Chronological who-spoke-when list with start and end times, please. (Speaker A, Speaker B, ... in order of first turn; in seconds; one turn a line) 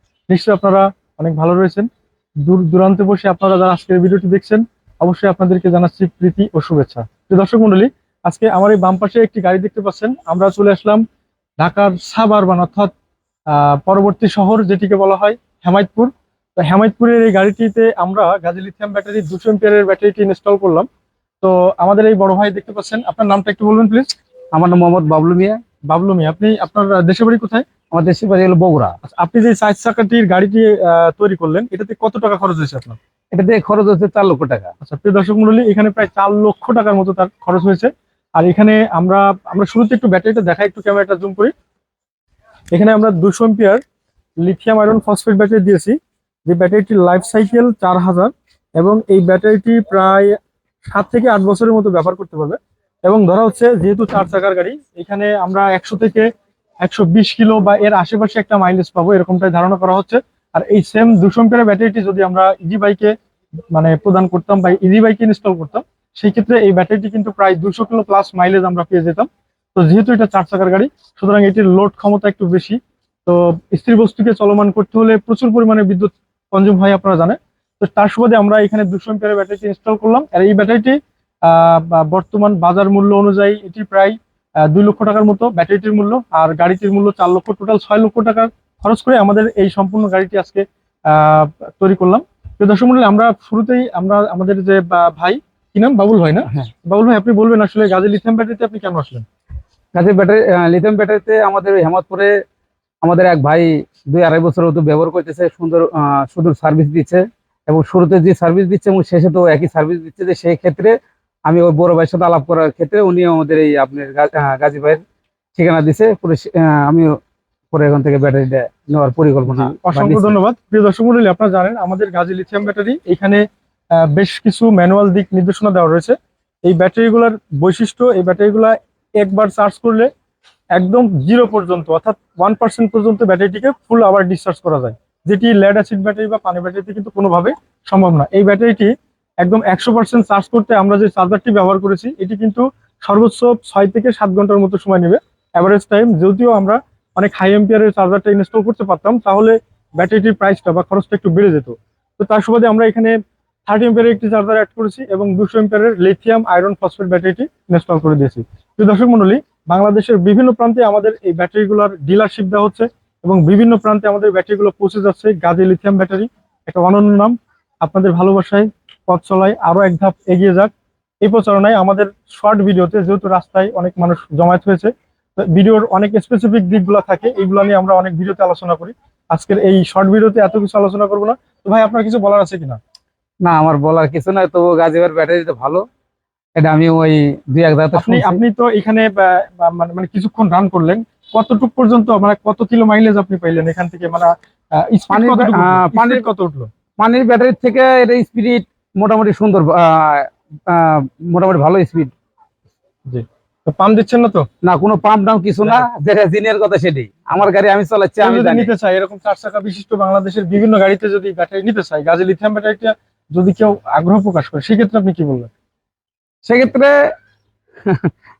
Speaker A: 0.3-1.9
Speaker A: 2.4-11.0
Speaker A: 11.6-12.9
Speaker A: 13.5-20.9
Speaker A: 21.4-24.1
Speaker B: 24.5-25.6
Speaker A: 25.9-27.6
Speaker B: 27.9-29.0
Speaker A: 29.0-33.0
Speaker B: 33.3-34.7
Speaker A: 34.8-41.5
Speaker A: 42.7-43.8
Speaker A: 44.4-50.3
Speaker A: 50.9-56.2
Speaker A: 56.8-63.1
Speaker A: 63.7-84.1
Speaker A: 84.7-99.2
Speaker B: 99.9-102.3
Speaker B: 103.0-110.9
Speaker B: 111.5-115.0
Speaker B: 115.5-117.1
Speaker B: 117.7-120.4
Speaker A: 119.5-123.4
Speaker A: 124.0-130.1
Speaker A: 130.7-153.2
Speaker A: 153.7-170.7
Speaker A: 171.2-182.8
Speaker B: 183.4-185.8
Speaker B: 186.6-188.4
Speaker A: 187.9-196.7
Speaker B: 195.1-196.2
Speaker B: 197.0-202.1
Speaker A: 203.1-204.4
Speaker B: 204.6-208.7
Speaker A: 208.2-215.5
Speaker B: 216.4-217.0
Speaker B: 217.8-218.1